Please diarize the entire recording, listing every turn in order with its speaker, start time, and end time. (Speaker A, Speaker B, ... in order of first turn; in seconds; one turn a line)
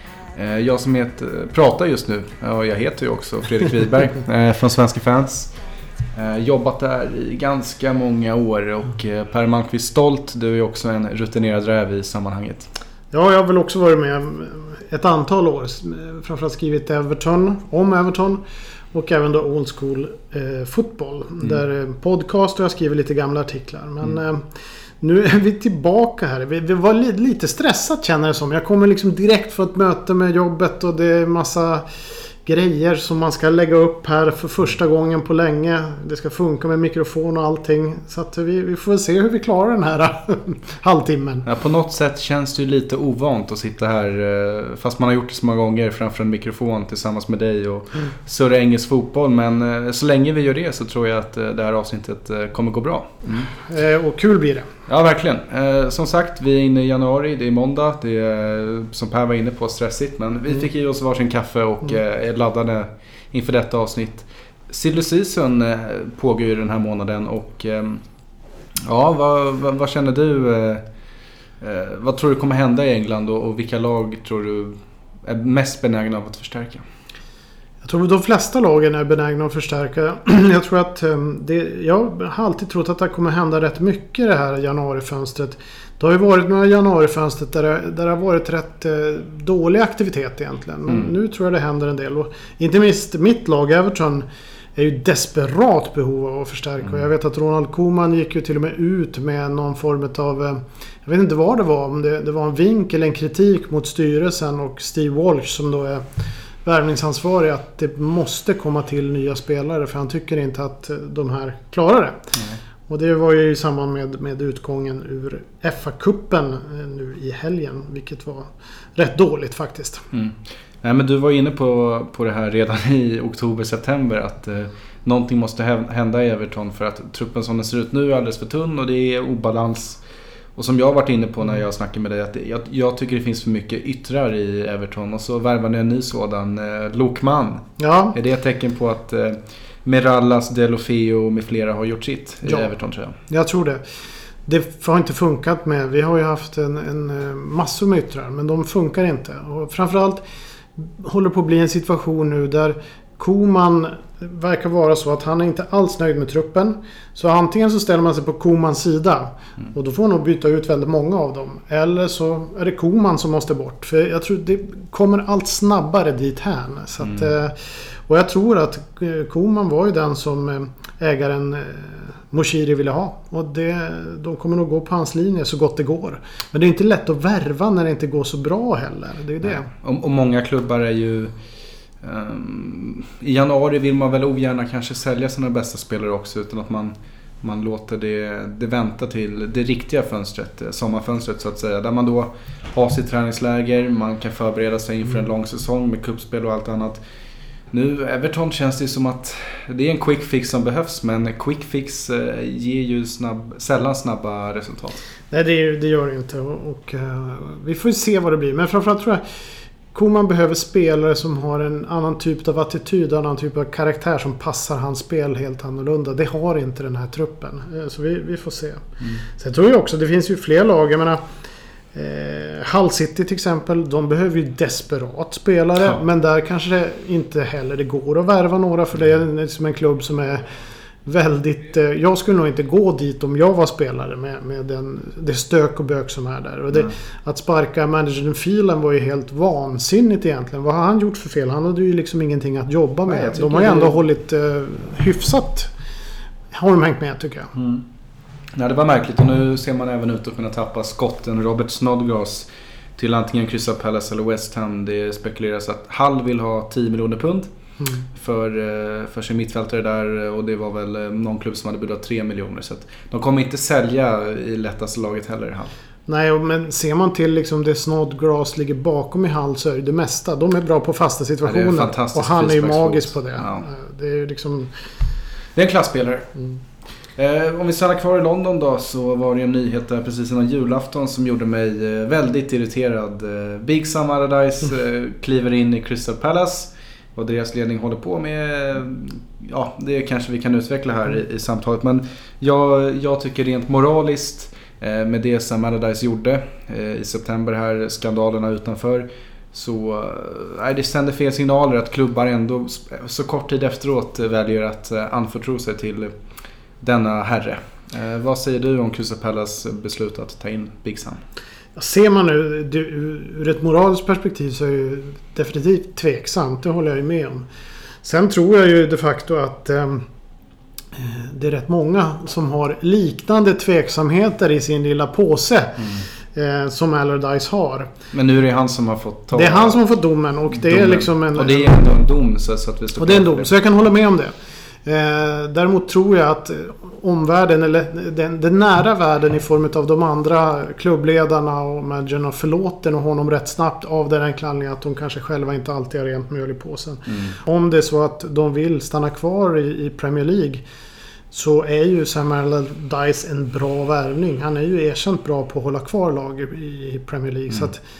Speaker A: 0.3-5.5
Speaker A: 6.1-12.7
Speaker B: 13.1-18.4
Speaker B: 18.9-24.4
Speaker B: 25.0-31.9
Speaker B: 32.4-41.5
Speaker A: 41.4-53.5
Speaker B: 53.3-54.7
Speaker A: 54.9-68.0
Speaker A: 68.8-70.8
Speaker A: 71.6-76.8
Speaker B: 77.8-106.0
Speaker B: 106.6-112.3
Speaker B: 112.9-120.0
Speaker A: 120.1-130.0
Speaker A: 130.6-143.2
Speaker B: 137.8-138.2
Speaker B: 142.4-142.7
Speaker B: 143.3-143.8
Speaker B: 144.4-150.2
Speaker B: 150.8-179.7
Speaker A: 167.0-167.3
Speaker A: 179.4-181.3
Speaker A: 182.0-197.0
Speaker A: 197.7-205.0
Speaker B: 205.3-209.2
Speaker B: 209.9-221.2
Speaker B: 221.9-230.4
Speaker B: 231.0-245.7
Speaker A: 243.1-244.0
Speaker B: 246.5-247.5
Speaker A: 247.5-247.8
Speaker A: 248.5-257.5
Speaker B: 257.8-258.0
Speaker A: 258.1-265.7
Speaker B: 266.1-274.7
Speaker A: 271.4-273.7
Speaker A: 275.5-276.3
Speaker A: 277.1-306.1
Speaker A: 306.8-311.2
Speaker B: 311.8-317.5
Speaker B: 318.0-320.0
Speaker B: 320.9-327.9
Speaker A: 325.8-326.1
Speaker A: 328.1-329.8
Speaker B: 329.3-331.8
Speaker A: 330.5-333.5
Speaker B: 333.0-334.3
Speaker B: 334.9-350.6
Speaker A: 347.1-347.4
Speaker B: 351.3-357.8